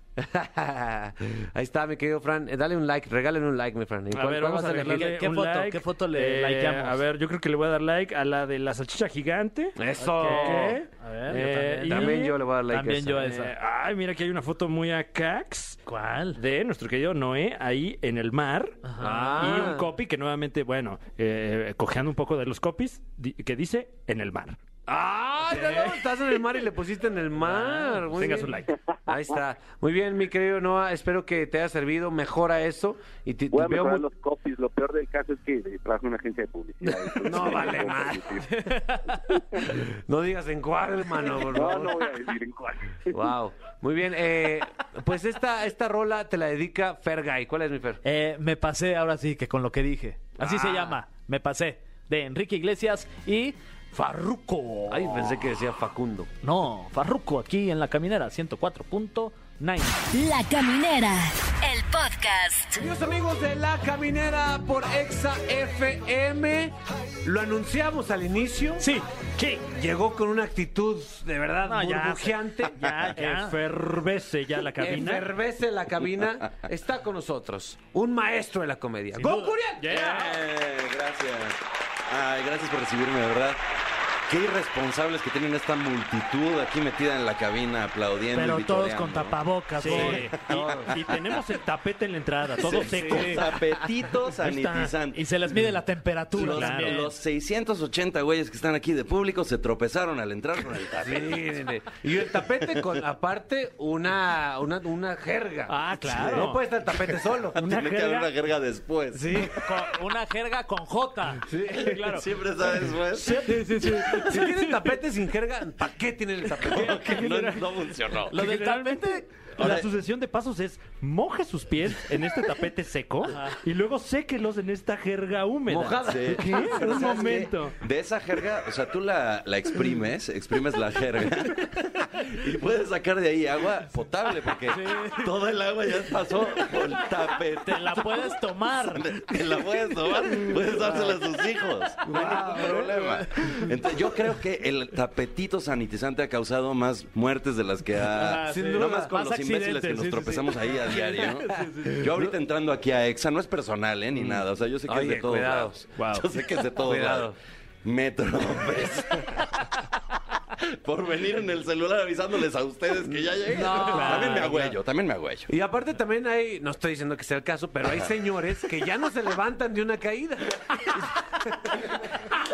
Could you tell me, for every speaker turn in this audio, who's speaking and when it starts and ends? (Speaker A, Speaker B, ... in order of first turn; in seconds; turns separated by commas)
Speaker A: 0.2-5.1, Speaker B: 4.1-12.3, Speaker C: 4.8-7.0, Speaker A: 9.8-10.8, Speaker C: 10.0-13.5, Speaker A: 11.9-13.3, Speaker B: 13.2-15.8, Speaker C: 15.9-16.4, Speaker B: 16.4-18.8, Speaker C: 18.8-19.7, Speaker A: 19.0-19.9, Speaker B: 19.4-24.6, Speaker A: 24.9-34.1, Speaker B: 25.6-25.9, Speaker B: 27.6-28.8, Speaker D: 33.5-38.5, Speaker A: 37.2-38.4, Speaker C: 38.4-39.4, Speaker A: 39.6-42.1, Speaker D: 41.4-43.1, Speaker A: 43.1-48.0, Speaker C: 48.0-55.3, Speaker A: 50.4-51.0, Speaker A: 54.9-56.3, Speaker C: 56.4-60.1, Speaker E: 60.1-62.8, Speaker A: 62.7-68.9, Speaker C: 68.8-69.6, Speaker A: 69.7-72.9, Speaker C: 71.6-73.6, Speaker B: 73.2-75.3, Speaker A: 74.8-80.3, Speaker C: 79.2-79.6, Speaker B: 79.8-80.4, Speaker F: 80.0-83.6, Speaker F: 84.3-89.4, Speaker C: 88.3-90.7, Speaker B: 89.8-93.5, Speaker F: 89.9-90.9, Speaker A: 90.1-90.8, Speaker F: 92.6-95.2, Speaker A: 92.7-93.5, Speaker C: 93.1-93.4, Speaker B: 94.4-94.9, Speaker C: 95.1-97.1, Speaker F: 96.3-101.5, Speaker B: 96.4-97.0, Speaker A: 101.0-107.6, Speaker B: 105.7-106.6, Speaker B: 107.5-108.3, Speaker F: 107.6-109.6, Speaker A: 109.1-109.5, Speaker C: 109.4-112.2, Speaker A: 111.5-112.0, Speaker F: 112.0-113.6, Speaker C: 113.2-114.7, Speaker B: 113.5-114.2, Speaker A: 113.5-117.2, Speaker B: 116.7-127.8, Speaker F: 116.7-118.4, Speaker C: 118.3-119.3, Speaker F: 119.6-119.9, Speaker A: 125.7-127.0, Speaker F: 126.0-159.5, Speaker C: 134.7-135.3, Speaker C: 137.6-139.8, Speaker A: 142.1-142.9, Speaker C: 142.1-143.2, Speaker C: 148.1-152.0, Speaker A: 148.5-149.1, Speaker A: 154.9-155.8, Speaker B: 156.0-156.2, Speaker A: 156.8-157.4, Speaker F: 160.8-165.5, Speaker A: 163.5-164.7, Speaker B: 163.8-164.5, Speaker A: 165.5-171.0